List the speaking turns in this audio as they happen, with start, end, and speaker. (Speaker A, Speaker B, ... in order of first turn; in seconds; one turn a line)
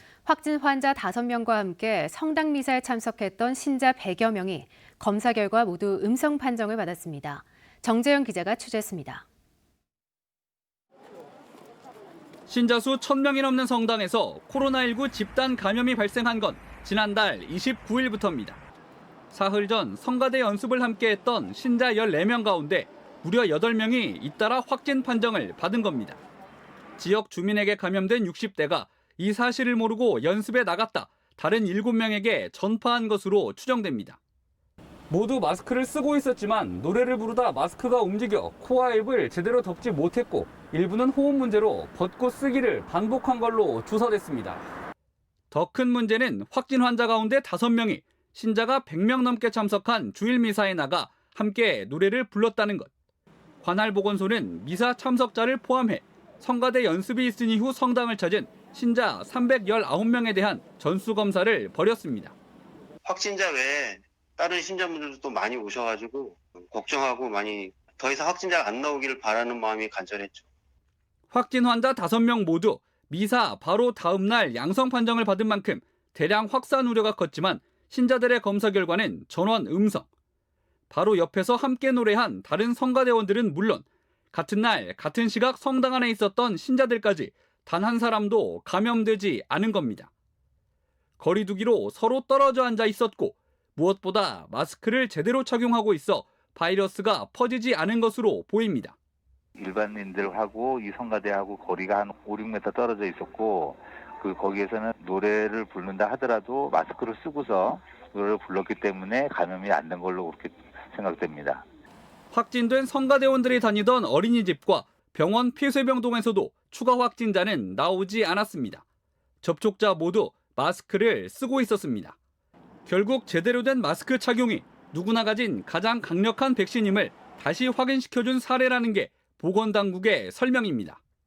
Speaker A: 0.2-9.2
Speaker B: 12.5-18.6
Speaker B: 19.3-26.2
Speaker B: 27.0-34.2
Speaker B: 35.1-44.6
Speaker B: 45.5-52.9
Speaker B: 53.6-62.3
Speaker C: 63.0-70.5
Speaker B: 71.3-80.1
Speaker B: 80.9-90.1
Speaker B: 91.2-99.0
Speaker D: 99.6-111.6
Speaker B: 112.3-118.8
Speaker B: 119.4-122.2
Speaker B: 122.9-131.0